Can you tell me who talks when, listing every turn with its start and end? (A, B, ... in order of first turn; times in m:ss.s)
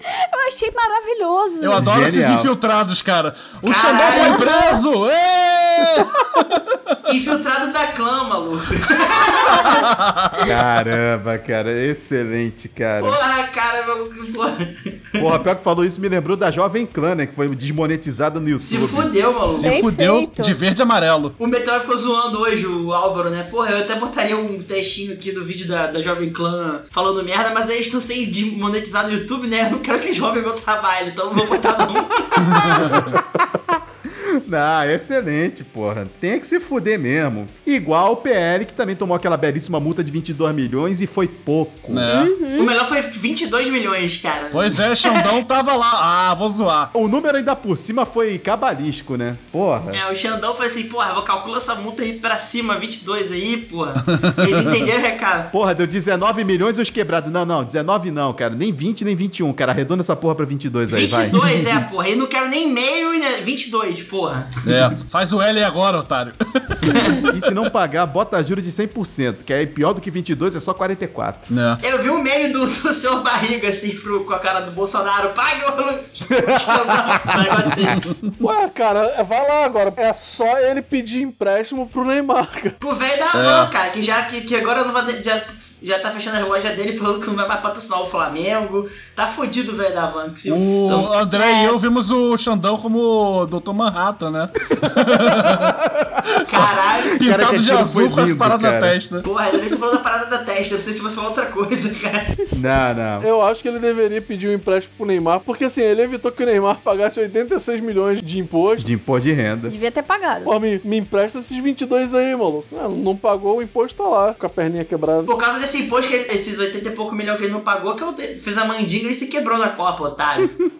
0:00.3-0:01.8 A
0:01.6-0:06.6 B
0:01.8-0:02.5 C
0:03.7-0:04.5 D
0:04.1-0:04.8 A
0:07.1-0:09.8 D
0:09.6-0:10.5 B
0:10.4-0:13.2 C
0:13.0-0:15.3 D
0:15.2-0:19.1 C
0:18.6-0:19.8 D
0:19.5-0:21.3 B
0:19.6-0:20.6 A
0:21.4-0:32.9 D
0:32.4-0:33.2 B
0:32.6-0:42.1 C
0:41.9-0:42.3 B
0:42.1-0:42.7 A
0:42.6-0:45.3 D
0:44.5-0:46.9 B
0:46.9-0:50.0 C
0:49.9-0:55.5 D
0:54.4-0:54.7 B
0:55.5-1:01.4 C
1:00.9-1:04.8 D
1:01.3-1:01.6 B
1:04.6-1:07.3 B
1:06.8-1:07.2 D
1:07.3-1:11.5 C
1:11.5-1:11.8 B
1:11.8-1:18.0 D
1:16.5-1:17.6 C
1:18.4-1:22.8 E
1:22.8-1:31.1 D
1:23.3-1:23.7 B
1:30.4-1:35.7 B
1:31.3-1:31.8 A
1:34.8-1:36.2 C
1:36.5-1:37.2 D
1:36.5-1:39.2 B
1:37.2-1:39.0 C
1:39.2-1:42.3 D
1:42.5-1:43.3 C
1:43.2-1:48.9 E
1:48.8-1:49.7 C
1:49.7-1:50.5 A
1:50.4-1:55.3 E
1:55.2-2:00.5 D